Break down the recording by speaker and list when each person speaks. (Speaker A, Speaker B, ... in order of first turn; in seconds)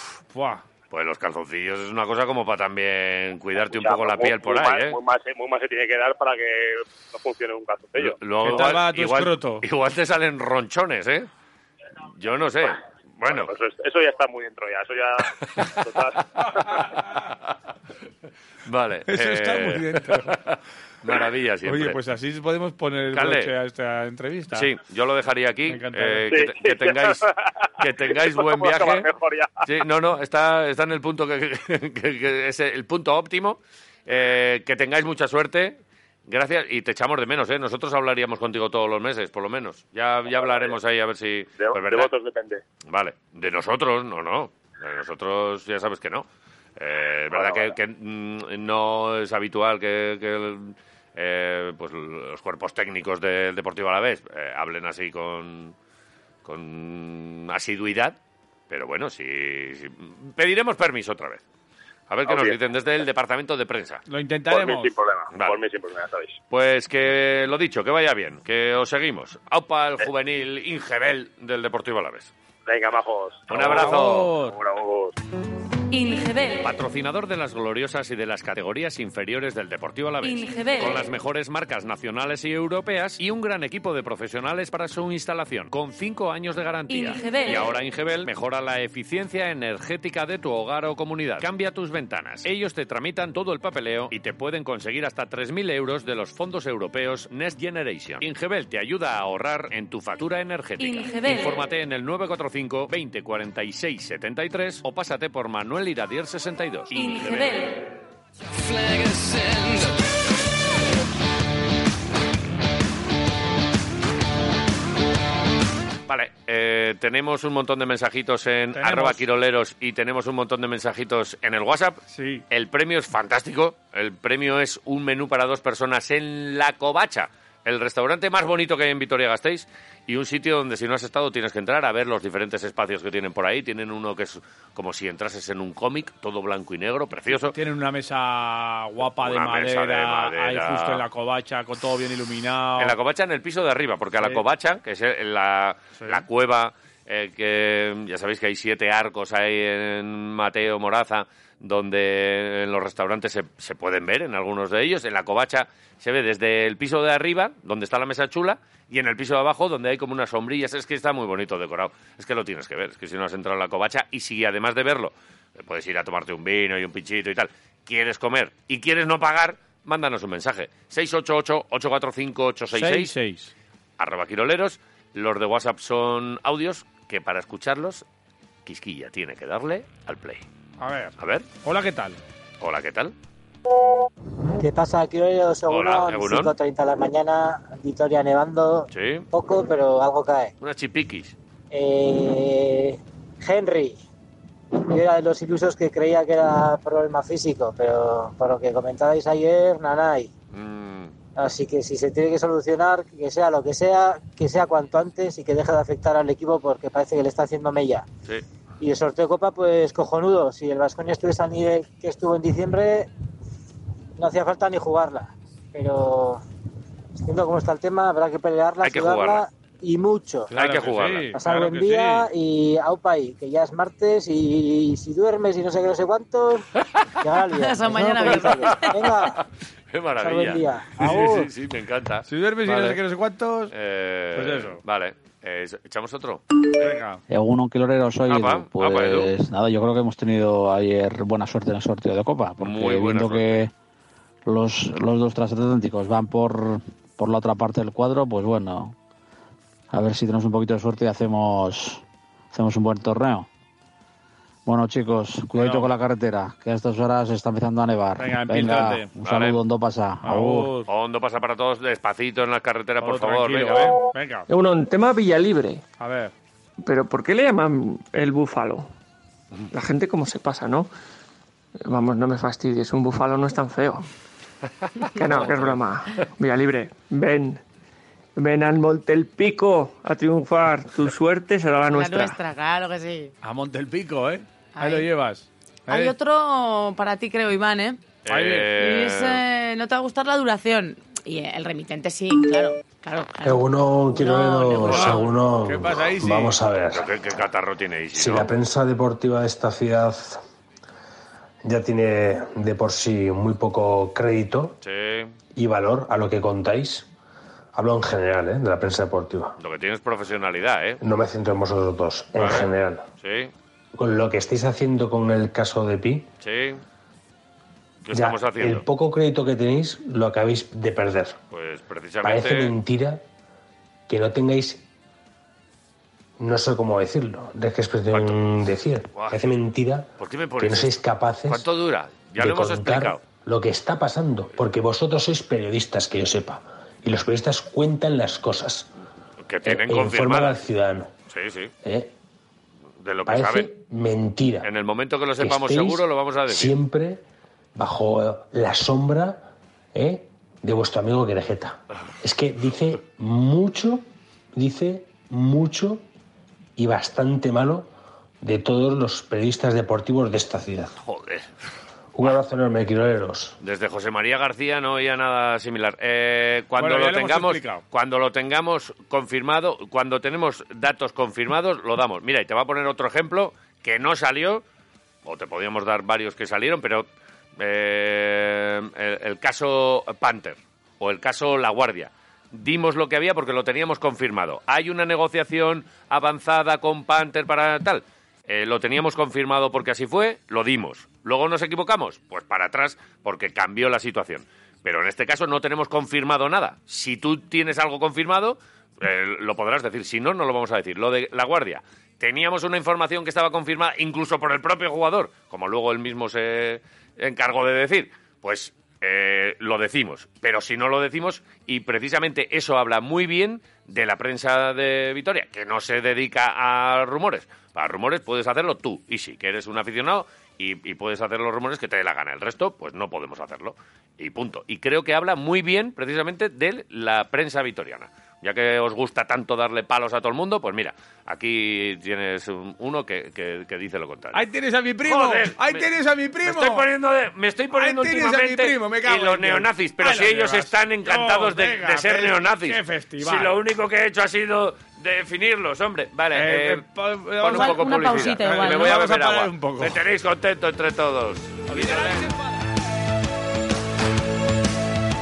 Speaker A: 0.3-0.6, 8.4-9.7, 19.1-20.3, 21.6-24.7, 25.7-26.3, 64.1-64.9, 73.5-74.6, 118.7-119.2, 122.1-122.4, 137.5-142.9, 146.0-146.2, 172.7-173.5, 180.8-182.2, 220.5-222.3, 231.0-231.5, 232.3-233.7, 234.3-234.8, 236.8-237.2, 255.6-255.9, 258.2-259.1, 260.2-260.9, 263.0-264.5, 266.0-266.3, 283.4-286.1, 288.3-288.7, 294.7-296.6, 366.8-367.8, 434.3-436.9, 437.8-443.6, 446.3-450.0, 451.7-452.4
Speaker B: 0.9-5.0, 8.0-11.3, 12.2-13.5, 15.4-15.7, 18.6-22.0, 23.1-23.5, 24.5-27.3, 27.8-29.1, 29.6-42.1, 42.9-55.8, 56.5-58.2, 58.7-61.4, 62.1-64.0, 65.3-65.6, 66.5-72.3, 73.5-74.3, 76.6-107.6, 116.1-137.6, 139.2-141.0, 142.8-173.2, 174.0-178.1, 178.7-180.4, 181.2-181.5, 182.6-183.1, 185.7-186.5, 188.9-189.3, 190.6-191.4, 200.5-201.1, 218.8-219.4, 220.5-221.4, 226.8-227.2, 228.2-233.0, 233.7-236.4, 238.3-239.3, 242.6-243.6, 259.2-259.6, 260.9-264.0, 288.2-289.4, 294.9-295.2, 296.9-298.5, 304.8-305.3, 309.6-311.0, 312.4-313.5, 316.4-316.8, 318.1-318.9, 321.5-322.8, 328.1-328.4, 329.1-329.5, 330.2-333.2, 339.4-340.6, 341.3-341.7, 343.0-343.7, 344.6-346.8, 361.0-361.5, 363.6-374.6, 375.2-434.4, 435.0-435.9, 436.4-446.9, 447.4-452.3
Speaker C: 3.6-8.2, 13.3-16.8, 26.3-29.7, 40.3-40.8, 41.6-42.6, 47.3-47.8, 62.3-62.6, 64.5-66.4, 72.7-73.9, 74.4-75.2
Speaker D: 75.9-76.8, 80.2-81.1, 86.9-87.8, 100.8-101.6, 106.9-107.7
Speaker E: 184.6-190.5, 191.7-194.0, 194.9-200.3, 201.4-208.1, 208.8-213.1, 214.2-216.4, 217.2-220.5, 221.4-226.7, 227.2-229.4, 230.2-231.0
Speaker F: 227.5-229.1, 281.9-283.3, 284.8-285.1, 285.9-288.0, 288.8-295.3, 447.5-448.9
Speaker G: 237.3-243.7, 244.5-249.0, 249.9-253.5, 254.7-260.7
Speaker H: 264.5-265.8, 266.8-268.9, 269.7-270.9, 271.9-274.0, 275.1-277.6, 278.4-282.4
Speaker I: 293.4-297.1, 298.1-300.4, 301.6-304.8, 305.5-307.1, 307.7-309.6, 311.0-313.1, 313.9-316.3, 318.1-321.4, 322.2-323.2, 324.1-324.8, 326.4-331.7, 332.4-338.9, 339.6-341.1, 341.8-342.1, 343.3-344.7, 345.4-347.2, 347.8-356.1, 356.8-357.9, 358.4-360.9, 362.1-363.6